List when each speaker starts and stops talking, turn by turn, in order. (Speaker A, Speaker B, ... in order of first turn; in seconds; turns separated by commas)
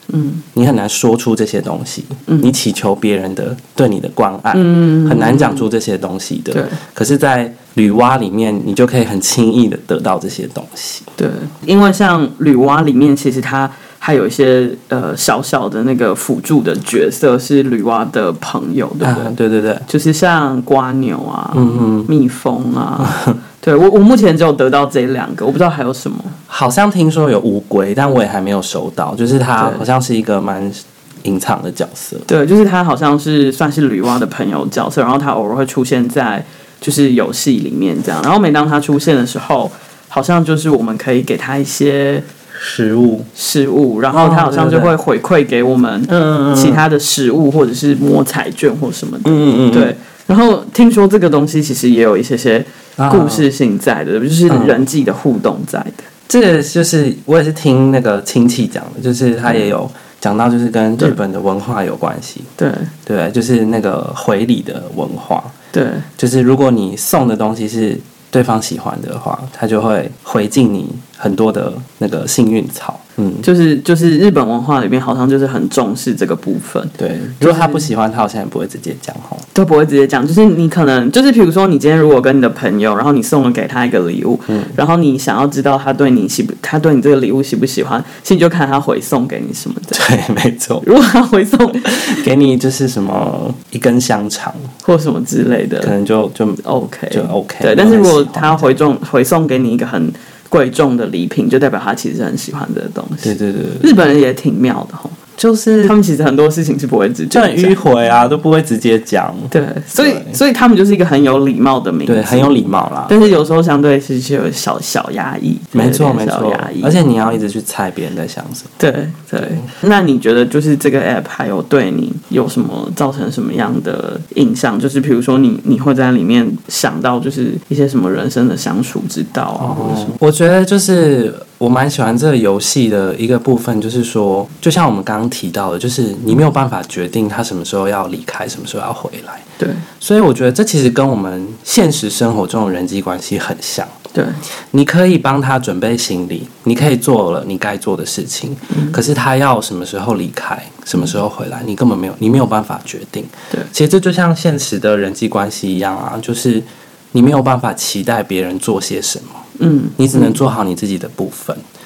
Speaker A: 0.1-0.4, Speaker B: 0.6-11.1, Speaker A: 2.3-2.5, Speaker A: 4.5-5.7, Speaker A: 6.5-6.8, Speaker A: 11.2-19.3, Speaker B: 19.0-19.9, Speaker A: 19.9-26.4, Speaker B: 21.5-22.1, Speaker B: 23.0-23.4, Speaker B: 26.5-32.3, Speaker A: 29.6-29.9, Speaker A: 32.3-42.2, Speaker B: 42.5-43.3, Speaker A: 43.3-56.1, Speaker B: 44.1-44.9, Speaker B: 46.1-46.8, Speaker B: 49.2-50.0, Speaker B: 53.0-53.5, Speaker B: 54.5-54.8, Speaker B: 56.3-62.5, Speaker A: 59.5-59.7, Speaker A: 62.6-62.9, Speaker B: 63.1-65.5, Speaker A: 65.7-66.1, Speaker B: 66.2-73.5, Speaker A: 73.4-77.9, Speaker B: 77.0-79.5, Speaker A: 79.5-90.0, Speaker B: 84.5-84.7, Speaker B: 89.9-90.9, Speaker A: 90.8-92.2, Speaker B: 91.9-94.7, Speaker A: 94.8-96.0, Speaker B: 95.8-98.7, Speaker A: 96.6-105.2, Speaker B: 103.2-103.9, Speaker B: 105.4-105.9, Speaker A: 105.8-107.8, Speaker B: 107.3-110.4, Speaker A: 109.5-117.0, Speaker B: 112.1-113.2, Speaker B: 115.7-118.7, Speaker A: 118.8-130.2, Speaker B: 129.6-139.5, Speaker A: 139.6-139.8, Speaker B: 140.0-143.9, Speaker A: 144.1-144.4, Speaker B: 144.7-159.4, Speaker A: 148.7-149.0, Speaker A: 159.6-160.4, Speaker B: 160.0-161.6